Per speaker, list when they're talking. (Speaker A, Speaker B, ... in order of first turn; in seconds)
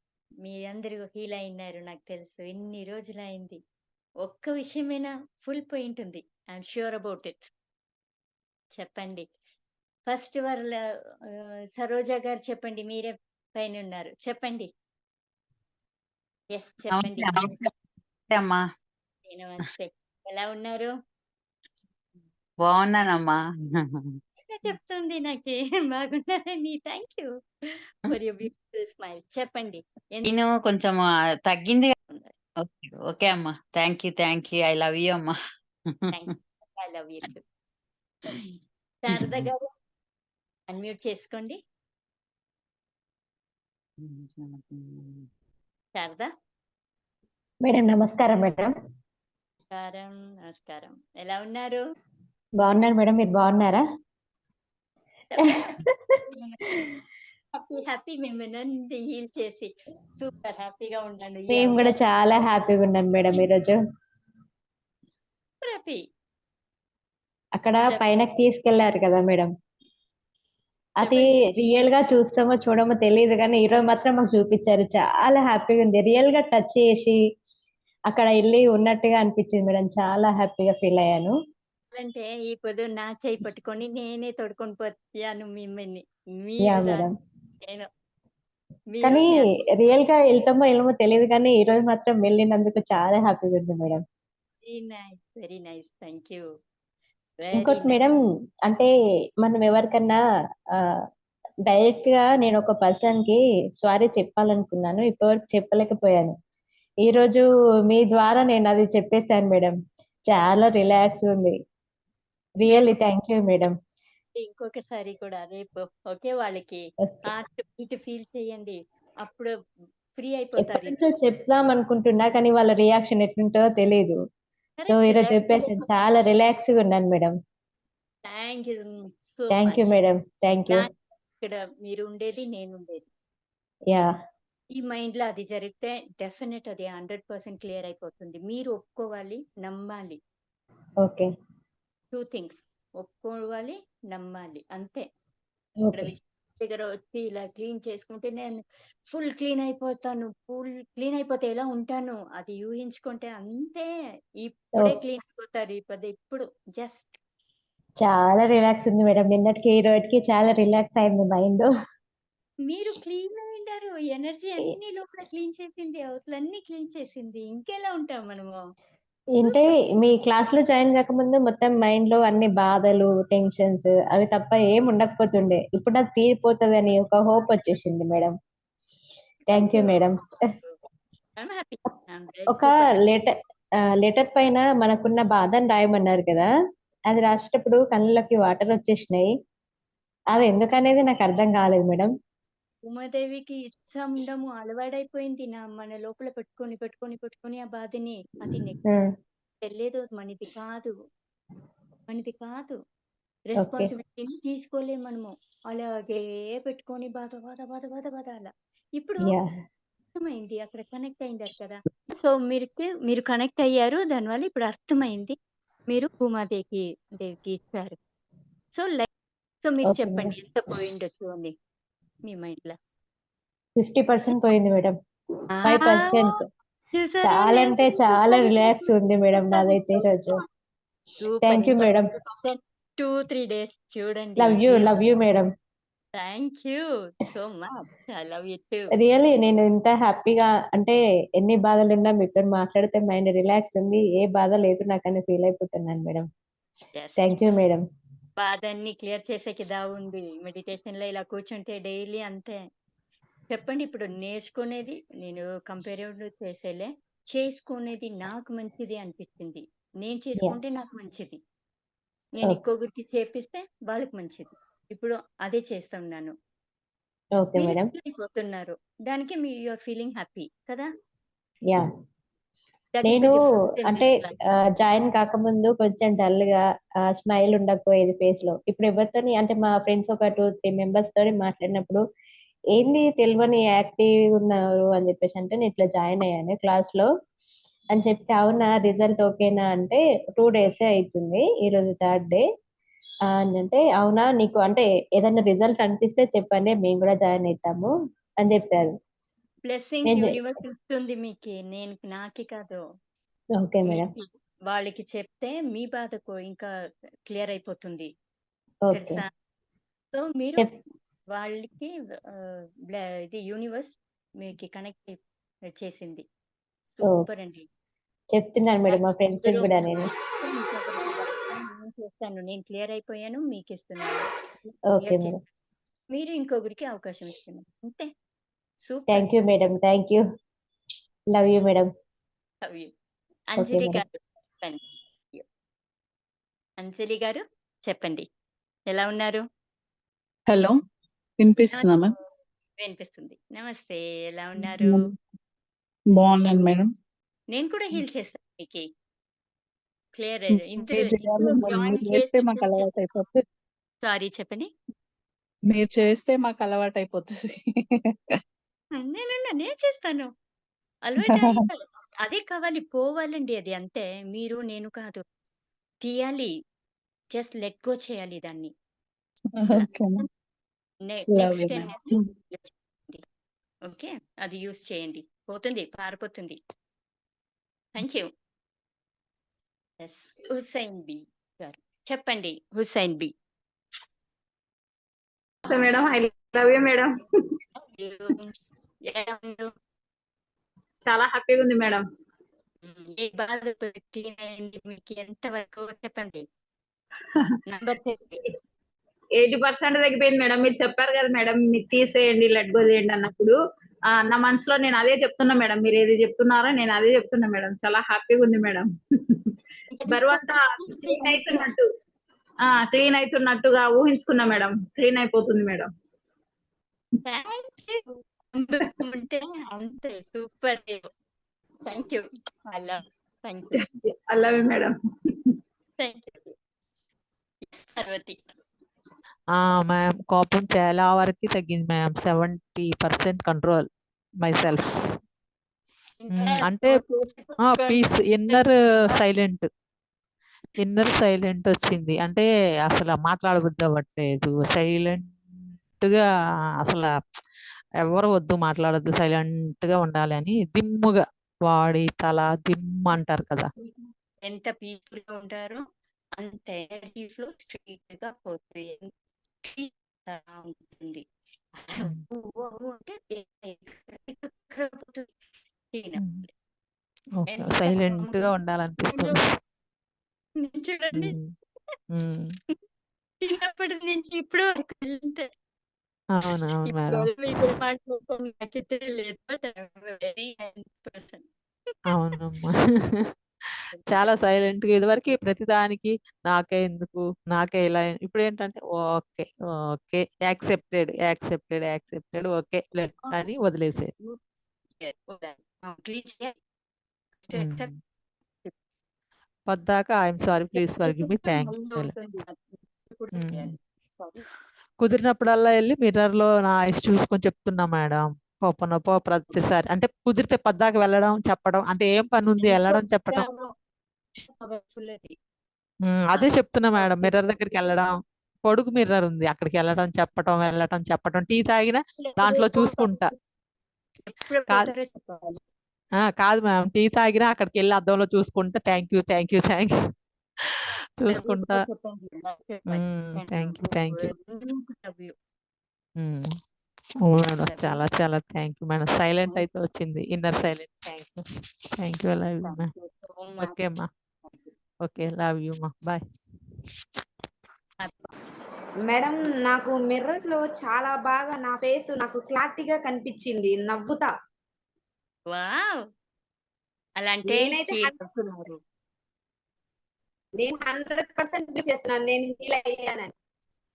Speaker A: 0.4-3.6, 4.2-7.5, 8.8-9.2, 10.1-10.8, 11.8-14.7, 16.5-17.3, 19.3-20.9, 24.4-27.3, 28.0-30.3, 36.1-37.4, 39.0-39.6, 40.7-41.6, 46.0-46.3, 49.7-51.8, 55.3-56.8, 57.5-62.0, 65.6-66.0, 71.0-71.3, 81.9-87.1, 88.9-89.6, 94.6-96.4, 97.4-98.0, 112.7-113.0, 114.4-119.5, 120.1-121.0, 124.8-125.9, 128.2-129.9, 131.4-133.0, 134.7-140.2, 142.1-145.1, 145.9-153.9, 154.4-157.2, 162.7-168.6, 179.5-180.8, 181.4-182.9, 192.8-198.8, 199.6-200.9, 202.1-202.8, 203.5-209.3, 210.2-215.3, 215.9-217.9, 218.7-219.1, 219.6-221.5, 222.3-222.8, 225.6-226.3, 226.9-230.0, 231.2-234.9, 236.1-238.9, 247.0-247.3, 248.4-252.6, 253.5-261.4, 262.4-266.3, 267.6-270.9, 272.9-274.3, 299.7-302.8, 303.9-306.7, 307.3-308.1, 308.9-309.3, 310.1-310.8, 311.3-311.9, 312.4-315.2, 315.8-316.2, 316.9-317.6, 318.9-324.3, 325.0-325.4, 326.1-328.1, 328.8-329.2, 332.6-332.9, 333.5-334.8, 336.8-338.3, 338.9-339.4, 341.7-342.0, 342.8-345.1, 346.4-346.8, 347.5-348.9, 350.1-353.3, 354.0-354.7, 358.9-360.3, 361.0-365.2, 366.0-366.5, 367.3-368.7, 369.7-370.2, 371.0-373.2, 373.9-376.6, 377.9-378.3, 380.0-383.3, 387.8-388.5, 389.1-389.7, 392.8-396.4, 397.6-398.5, 409.9-411.6, 417.2-421.1, 421.9-423.8, 426.0-426.5, 427.6-428.6, 436.2-439.2, 453.8-455.8, 456.4-459.1, 459.6-461.2, 461.8-465.3, 465.9-466.3, 467.5-468.5, 469.1-469.4, 470.6-471.4, 473.4-475.5, 476.5-481.4, 483.9-484.3, 495.0-496.5, 497.4-497.9, 500.7-504.4, 512.6-513.7, 514.4-515.4, 516.3-517.7, 522.2-523.3, 524.2-525.6, 531.3-535.3, 537.6-538.0, 542.6-544.7, 548.0-548.3, 555.5-556.0, 557.2-558.8
Speaker B: 16.9-17.7, 18.3-18.6, 22.6-23.8, 30.2-31.9, 32.6-35.3, 39.1-39.5, 44.0-45.3
Speaker C: 47.6-48.7, 52.6-53.8, 61.5-63.8, 67.6-69.5, 71.0-77.2, 78.1-81.3, 86.6-87.1, 89.8-94.0, 97.5-98.1, 99.4-100.2, 101.7-106.3, 107.0-109.7, 110.3-111.5, 112.6-113.7, 120.6-124.2, 124.8-127.3, 129.5-130.8, 145.8-146.1, 158.0-161.7, 169.3-178.3, 179.5-180.2, 182.5-183.3, 184.0-186.5, 187.1-189.3, 190.3-192.1, 203.6-203.9, 219.9-220.3, 223.8-224.9, 225.6-226.4, 227.2-230.3, 231.4-232.1, 234.4-235.5, 239.0-246.2, 247.2-247.8, 267.4-267.9, 273.1-274.2, 274.8-282.0, 282.8-287.1, 287.9-292.4, 293.4-297.9, 298.4-298.9, 303.6-304.0, 308.9-309.2, 318.3-320.0, 324.9-325.3, 329.1-330.2, 331.3-331.9, 333.6-334.0
Speaker D: 340.5-340.8, 341.4-342.1, 344.6-345.1, 346.1-346.9, 350.5-353.4, 355.6-358.4, 361.2-361.7, 369.5-370.3, 371.3-372.3
Speaker E: 385.7-387.1, 391.0-392.0, 399.4-403.5, 404.1-409.5, 410.1-411.8, 412.6-415.9, 423.8-424.9
Speaker F: 429.5-433.9, 434.4-435.2, 436.3-437.0, 437.6-439.7, 440.8-445.4, 445.9-446.2, 446.8-447.1, 448.0-453.6, 466.2-466.4, 467.4-469.4, 471.1-471.5, 472.1-472.5, 476.3-477.6, 482.1-494.1, 497.5-498.0, 499.7-502.1, 503.3-503.7, 505.0-513.5, 516.0-518.1, 518.6-523.3, 526.3-529.9, 530.6-531.9, 532.9-534.3, 536.2-536.5, 537.2-541.4, 542.0-542.9, 543.6-544.1, 545.0-546.2
Speaker G: 549.0-554.3, 557.5-558.1, 560.6-563.3